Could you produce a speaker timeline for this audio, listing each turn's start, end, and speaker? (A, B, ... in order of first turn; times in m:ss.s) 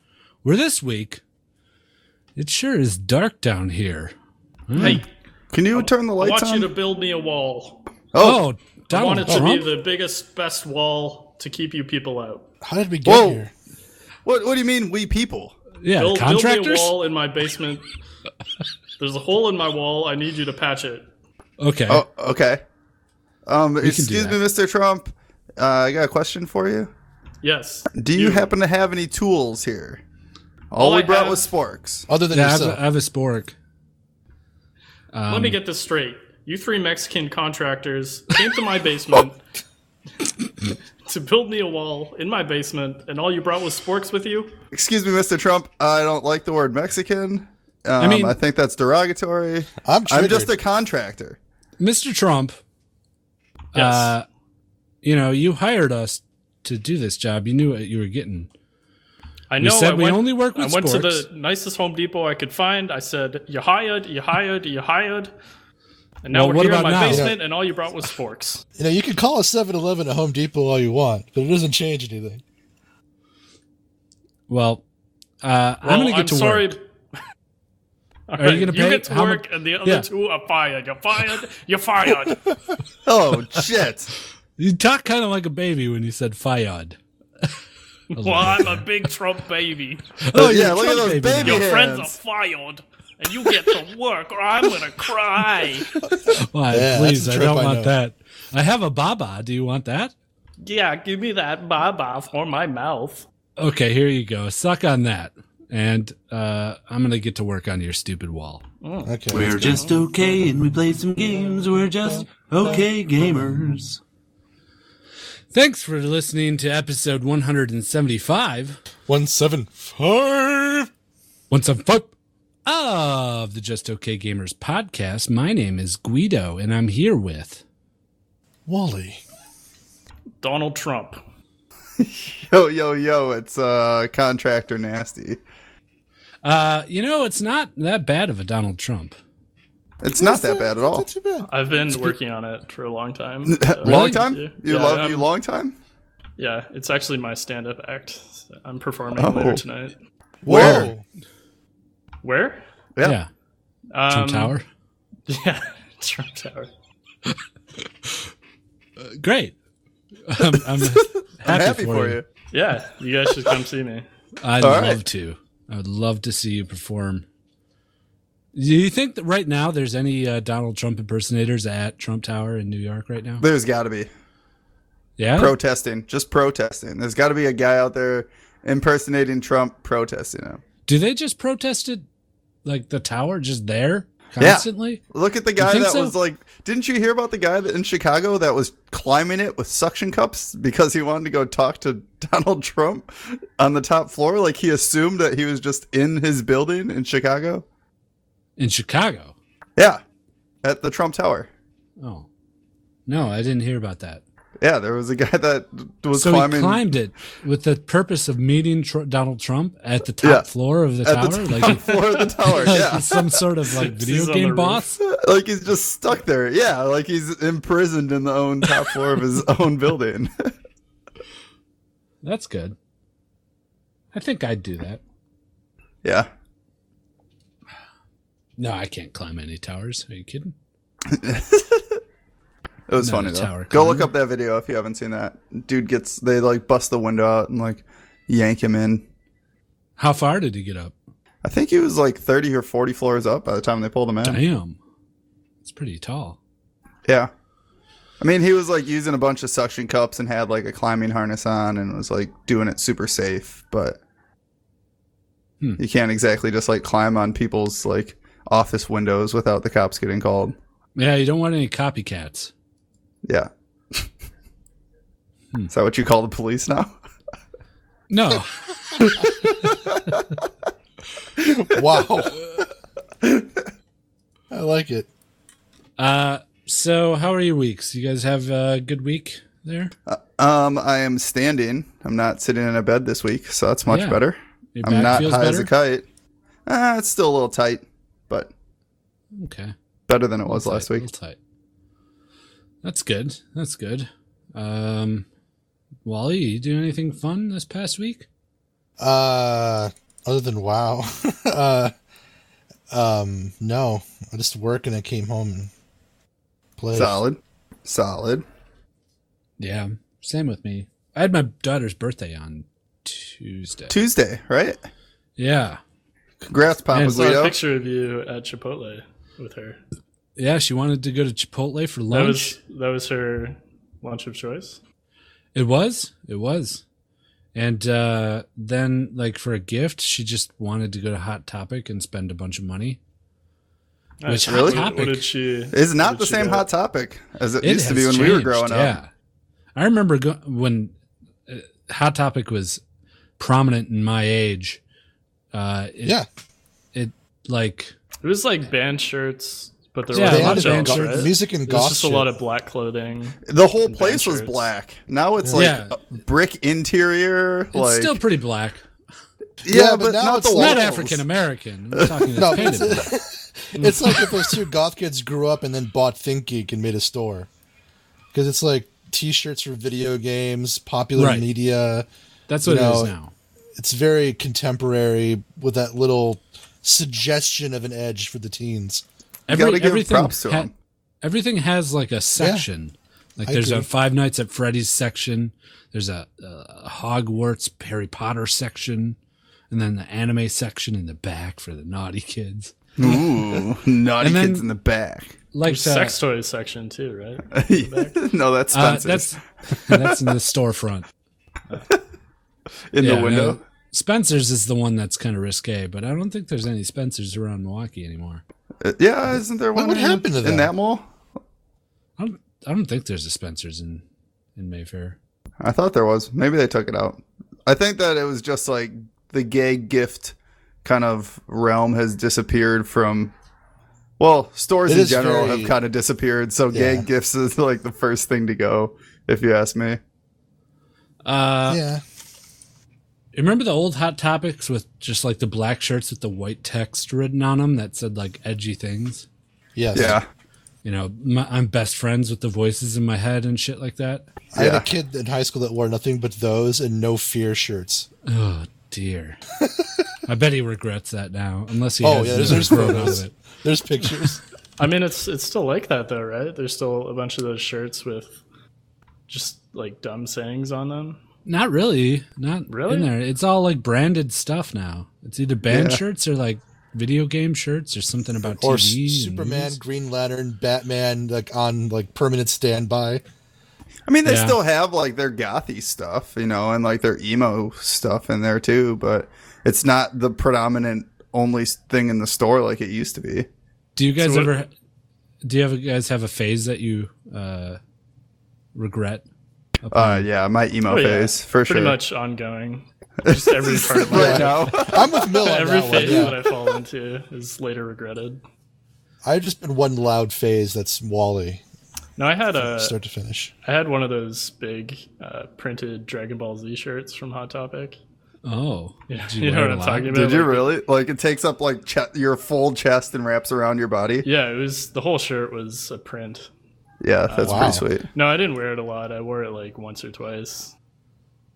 0:00.4-0:01.2 A
0:02.4-0:04.1 A
0:04.7-0:05.0 A
0:04.8-0:05.1 B
0:05.5-0:06.7 C
0:05.7-0:07.8 B
0:08.1-0:08.4 C
0:08.2-0:09.7 A
0:08.9-0:12.5 B
0:12.6-0:13.5 D
0:13.0-0:13.4 C
0:14.2-0:15.6 C
0:15.8-0:16.9 A
0:16.0-0:17.8 B
0:19.0-0:21.0 B
0:21.6-0:22.0 A
0:21.9-0:22.6 C
0:23.4-0:26.9 C
0:23.8-0:24.4 A
0:27.4-0:28.5 B
0:28.0-0:30.0 C
0:30.7-0:32.1 C
0:30.8-0:31.4 B
0:32.1-0:32.8 D
0:32.3-0:33.5 A
0:35.1-0:35.6 A
0:35.3-0:39.4 B
0:41.0-0:44.5 B
0:44.7-0:51.4 C
0:48.0-0:48.4 A
0:49.8-0:50.5 D
0:51.8-0:52.6 A
0:53.7-0:54.2 A
0:53.8-0:54.1 B
0:55.0-0:58.5 A
0:59.5-1:05.3 B
0:59.6-1:01.2 A
1:06.2-1:08.6 B
1:06.3-1:07.3 A
1:07.1-1:07.4 D
1:08.8-1:12.4 D
1:14.5-1:14.8 A
1:15.4-1:16.7 A
1:15.8-1:16.8 B
1:18.3-1:22.4 B
1:18.4-1:20.0 A
1:23.0-1:24.1 C
1:24.6-1:27.0 A
1:28.1-1:30.2 B
1:28.2-1:28.8 A
1:30.2-1:31.6 A
1:30.3-1:32.1 C
1:31.3-1:35.9 B
1:36.4-1:40.1 A
1:36.7-1:38.0 D
1:40.6-1:43.3 B
1:43.6-1:48.6 A
1:48.8-1:50.0 B
1:49.0-1:49.6 D
1:49.3-1:54.0 E
1:49.4-1:49.8 A
1:55.5-1:58.8 A
1:59.1-2:00.9 D
2:01.5-2:02.1 A
2:02.6-2:07.6 A
2:08.7-2:09.2 D
2:10.4-2:11.2 B
2:12.0-2:15.4 C
2:16.4-2:19.2 A
2:20.0-2:21.1 C
2:20.1-2:21.5 D
2:21.4-2:25.3 B
2:23.4-2:25.8 C
2:23.8-2:24.2 A
2:26.4-2:29.9 B
2:29.2-2:29.6 C
2:30.4-2:31.0 D
2:30.5-2:30.9 C
2:30.5-2:30.8 A
2:32.2-2:32.6 B
2:33.0-2:33.3 A
2:33.9-2:34.5 B
2:34.1-2:34.6 A
2:35.3-2:36.7 B
2:39.0-2:39.5 A
2:40.3-2:42.2 A
2:40.8-2:42.2 C
2:42.5-2:44.0 B
2:44.4-2:47.2 A
2:44.6-2:45.0 C
2:48.5-2:53.4 A
2:53.4-2:54.1 C
2:55.2-2:55.5 A
2:55.4-3:00.6 C
3:00.9-3:02.0 A
3:02.6-3:05.0 A
3:04.4-3:17.6 C
3:05.6-3:06.1 A
3:18.6-3:19.3 A
3:20.6-3:21.5 C
3:22.0-3:22.3 A
3:23.1-3:24.2 A
3:24.6-3:26.8 C
3:26.1-3:32.0 A
3:31.0-3:33.3 C
3:32.5-3:35.0 A
3:33.7-3:34.8 B
3:35.1-3:40.5 C
3:42.2-3:42.8 A
3:44.1-3:45.0 A
3:48.6-3:50.5 A
3:51.1-3:52.0 C
3:52.9-3:59.0 C
3:53.0-3:54.1 A
4:00.0-4:00.9 A
4:01.4-4:04.4 C
4:04.2-4:04.8 A
4:05.6-4:06.4 A
4:08.2-4:14.0 C
4:15.8-4:20.6 C
4:21.0-4:22.5 A
4:23.2-4:24.0 C
4:25.7-4:26.9 C
4:28.1-4:29.4 A
4:31.4-4:32.4 D
4:34.5-4:35.1 D
4:36.0-4:39.9 A
4:40.1-4:46.0 C
4:43.9-4:44.2 A
4:44.7-4:45.7 A
4:46.7-4:48.5 C
4:49.3-4:49.7 A
4:50.1-4:51.0 C
4:50.5-4:51.4 A
4:52.8-4:55.2 A
4:56.0-4:58.2 A
4:59.0-5:01.9 D
5:02.9-5:05.7 D
5:06.8-5:07.2 D
5:06.9-5:08.4 C
5:09.6-5:13.9 A
5:13.9-5:14.8 C
5:15.4-5:15.8 A
5:16.4-5:17.6 C
5:16.9-5:17.3 A
5:17.0-5:19.8 B
5:20.4-5:22.6 A
5:22.1-5:24.8 B
5:25.5-5:26.8 A
5:27.5-5:33.0 A
5:34.2-5:36.7 B
5:34.3-5:35.3 A
5:34.4-5:34.9 C
5:35.7-5:39.0 C
5:37.6-5:39.1 A
5:39.8-5:40.9 A
5:41.5-5:42.8 A
5:43.4-5:44.8 A
5:45.5-5:46.2 A
5:46.9-5:47.9 A
5:48.2-5:54.6 B
5:50.1-5:51.3 A
5:50.2-5:52.3 D
5:53.5-5:58.2 C
5:55.5-5:56.0 A
5:57.7-5:58.8 A
5:59.6-6:01.2 C
5:59.6-6:00.9 D
6:00.5-6:03.1 A
6:01.9-6:02.8 C
6:02.4-6:07.5 D
6:08.3-6:12.0 D
6:11.2-6:11.5 A
6:12.5-6:13.3 A
6:12.6-6:13.1 D
6:13.8-6:19.0 D
6:19.5-6:20.7 A
6:19.5-6:20.7 C
6:21.2-6:29.2 A
6:22.4-6:22.6 D
6:23.4-6:23.9 D
6:29.7-6:33.1 A
6:33.0-6:35.4 C
6:34.2-6:34.6 A
6:35.5-6:36.1 A
6:35.6-6:38.2 B
6:37.6-6:39.3 C
6:38.7-6:41.1 A
6:39.9-6:40.2 C
6:42.9-6:43.6 C
6:43.0-6:48.4 A
6:48.8-6:51.0 C
6:49.3-6:50.7 D
6:52.2-6:54.0 A
6:54.6-6:55.2 A
6:55.6-7:03.3 C
7:04.2-7:10.0 C
7:04.8-7:05.7 D
7:06.7-7:07.1 D
7:11.2-7:11.8 A
7:11.7-7:12.0 D
7:13.3-7:19.2 A
7:19.8-7:20.2 D
7:19.9-7:20.2 C
7:20.8-7:24.2 A
7:24.5-7:28.1 D
7:24.5-7:24.9 C
7:28.3-7:29.4 A
7:29.6-7:29.9 D
7:30.3-7:33.3 A
7:32.0-7:34.4 D
7:34.8-7:38.4 B
7:39.3-7:41.2 B
7:41.4-7:49.8 A
7:42.7-7:43.1 B
7:45.7-7:46.0 C
7:48.4-7:53.2 D
7:54.1-8:03.5 C
7:54.2-7:54.6 A
8:04.0-8:04.7 A
8:04.2-8:04.5 B
8:05.4-8:07.8 A
8:08.7-8:09.2 A
8:09.8-8:10.2 A
8:09.9-8:12.0 C
8:10.9-8:18.4 B
8:13.2-8:15.3 C
8:14.1-8:16.4 D
8:16.0-8:16.3 C
8:19.2-8:21.6 D
8:22.2-8:22.9 B
8:22.6-8:23.5 D
8:23.6-8:28.0 B
8:28.4-8:30.1 A
8:29.1-8:30.7 B
8:30.1-8:34.2 C
8:34.2-8:36.5 B
8:37.0-8:38.0 C
8:37.3-8:40.7 B
8:37.4-8:37.8 D